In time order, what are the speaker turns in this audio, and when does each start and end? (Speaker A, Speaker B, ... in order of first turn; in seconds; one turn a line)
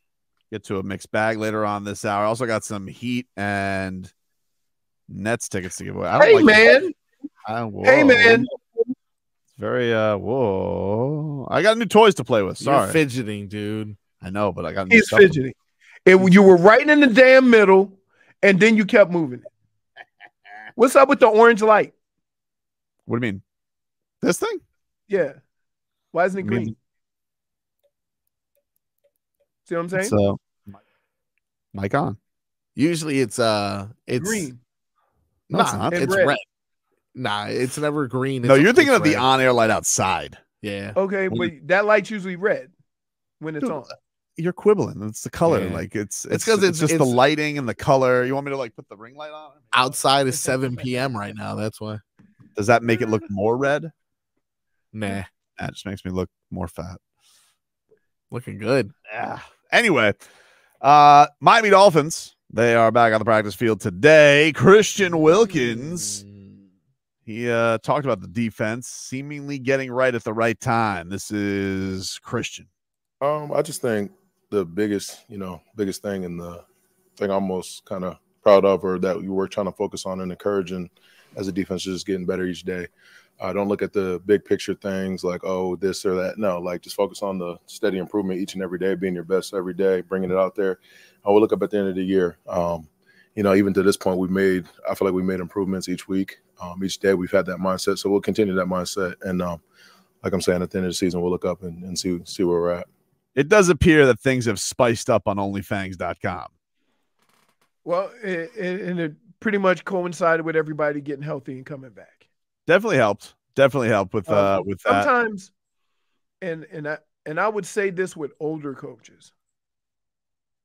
Speaker A: 0.5-4.1
Speaker A: 5.1-6.8
Speaker B: 6.2-7.0
Speaker A: 7.5-8.5
Speaker B: 7.8-8.5
Speaker A: 9.5-13.0
Speaker C: 12.6-14.0
Speaker A: 14.2-15.3
Speaker B: 14.9-19.5
Speaker B: 20.8-21.9
Speaker A: 23.1-23.4
Speaker A: 24.2-24.6
Speaker B: 25.1-25.4
Speaker B: 26.1-26.8
Speaker A: 26.4-26.7
Speaker B: 29.6-30.1
Speaker A: 30.0-30.8
Speaker A: 31.7-32.2
Speaker C: 32.8-34.5
Speaker B: 34.1-34.6
Speaker A: 35.5-36.0
Speaker C: 35.5-36.4
Speaker B: 35.8-36.4
Speaker C: 37.1-39.3
Speaker A: 38.4-40.4
Speaker C: 40.6-41.0
Speaker B: 40.9-42.7
Speaker B: 43.4-43.9
Speaker A: 44.4-49.6
Speaker C: 45.5-47.2
Speaker C: 49.7-52.0
Speaker A: 52.5-53.9
Speaker C: 54.9-55.3
Speaker A: 55.6-57.0
Speaker C: 58.3-58.9
Speaker A: 59.1-60.1
Speaker A: 60.8-66.2
Speaker C: 65.5-66.6
Speaker A: 67.2-72.7
Speaker D: 73.2-76.6
Speaker D: 77.2-99.6
Speaker D: 100.2-102.9
Speaker A: 103.3-106.5
Speaker B: 107.8-112.2
Speaker A: 112.7-115.1
Speaker B: 114.3-115.5
Speaker B: 116.4-119.3